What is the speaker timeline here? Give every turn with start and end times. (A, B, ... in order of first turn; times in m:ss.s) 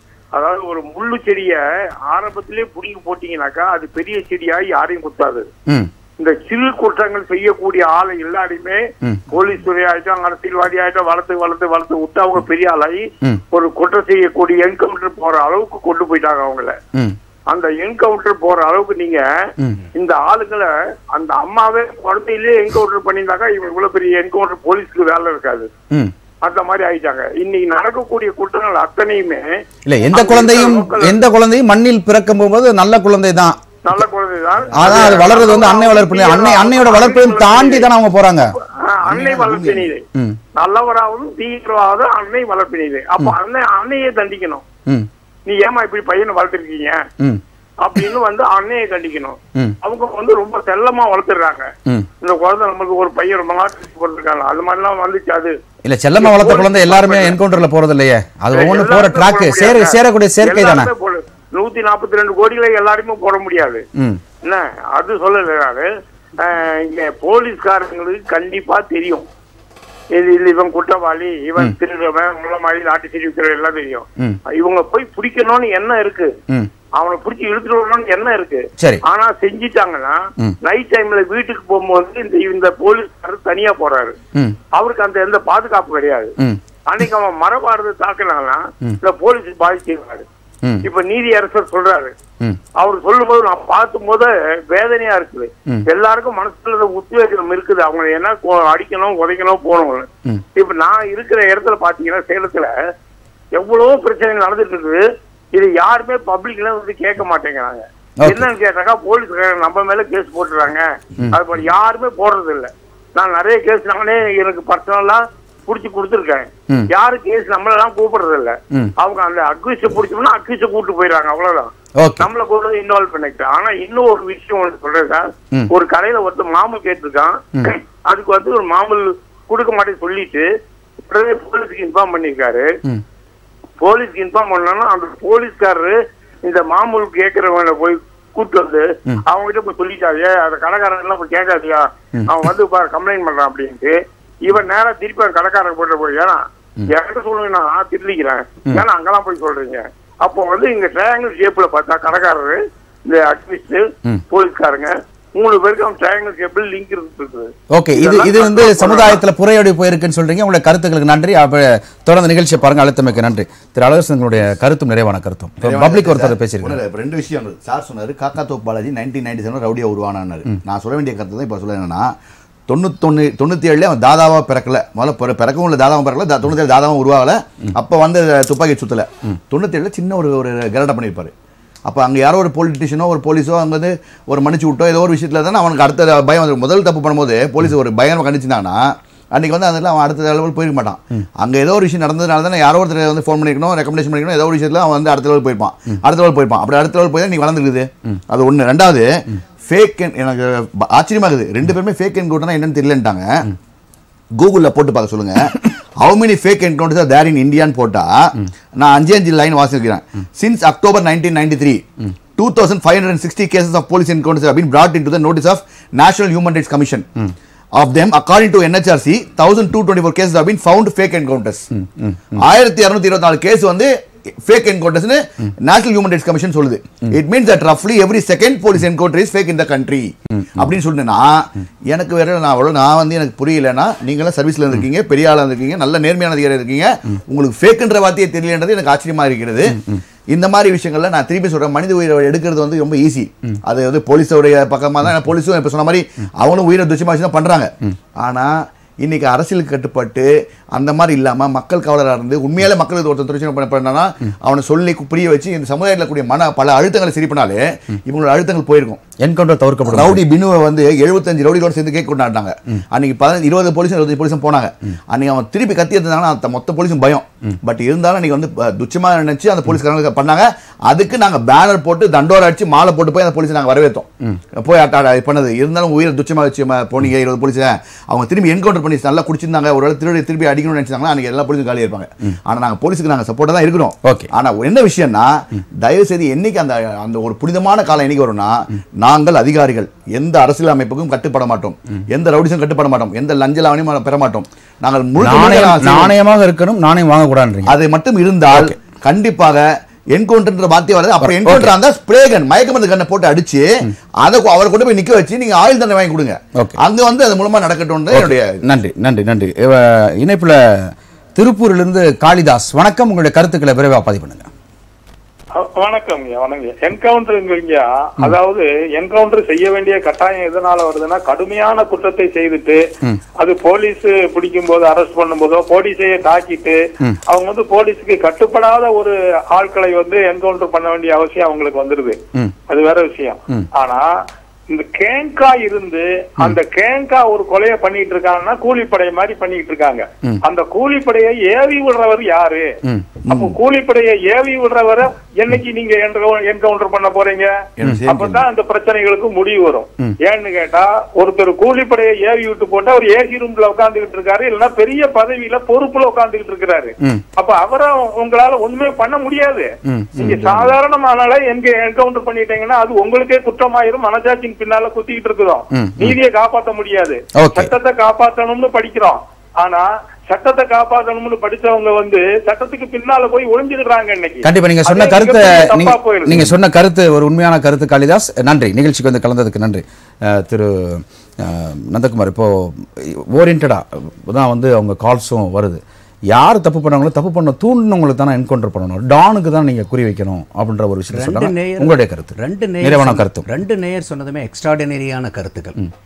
0:00.3-0:05.5 A
0:06.2-0:16.8 A
0:17.5-0:19.2 A
0:19.9-0:25.7 A
0:26.4-0:29.4 A
0:29.8-0:34.0 B
0:30.1-0:31.2 A
0:33.8-0:37.9 A
0:34.7-0:35.2 C
0:34.7-0:38.5 B
0:38.8-0:40.0 A
0:39.1-0:39.9 C
0:40.1-0:40.4 B
0:40.6-0:44.6 A
0:45.5-0:47.0 A
0:47.8-0:51.7 A
0:52.2-0:55.6 A
0:55.8-1:00.9 B
0:56.2-0:57.4 A
0:58.5-1:03.8 A
1:04.0-1:04.2 B
1:04.4-1:05.9 A
1:06.4-1:09.2 A
1:10.1-1:16.3 A
1:17.0-1:24.2 A
1:18.8-1:19.0 B
1:24.7-1:26.3 A
1:26.9-1:30.2 A
1:30.8-1:32.1 A
1:32.8-1:42.7 A
1:43.5-1:45.0 A
1:45.5-2:10.4 A
1:48.2-1:48.5 B
2:02.0-2:02.3 B
2:11.1-2:12.7 A
2:13.8-2:39.2 A
2:22.1-2:22.4 B
2:37.7-2:46.8 B
2:45.6-2:52.1 C
2:52.7-3:01.3 C
3:01.8-3:23.5 C
3:24.4-3:31.8 C
3:32.4-3:37.1 C
3:37.8-3:41.7 C
3:41.7-3:42.4 B
3:42.4-3:43.9 C
3:44.4-4:19.0 C
3:50.4-3:50.7 B
4:19.2-4:20.2 B
4:19.8-4:56.1 C
4:44.0-4:44.3 B
4:55.2-4:57.8 B
4:57.6-5:08.6 C
4:58.5-4:58.7 B
5:01.2-5:01.7 B
5:08.1-5:14.5 B
5:15.6-5:22.8 D
5:23.4-5:34.1 D
5:34.7-5:42.7 D
5:42.8-5:43.1 B
5:43.3-5:43.5 C
5:43.3-5:47.5 D
5:47.8-5:48.4 C
5:48.1-6:16.5 D
5:59.8-6:00.7 B
6:05.7-6:06.1 B
6:07.4-6:07.7 B
6:14.4-6:33.4 B
6:31.1-6:35.8 E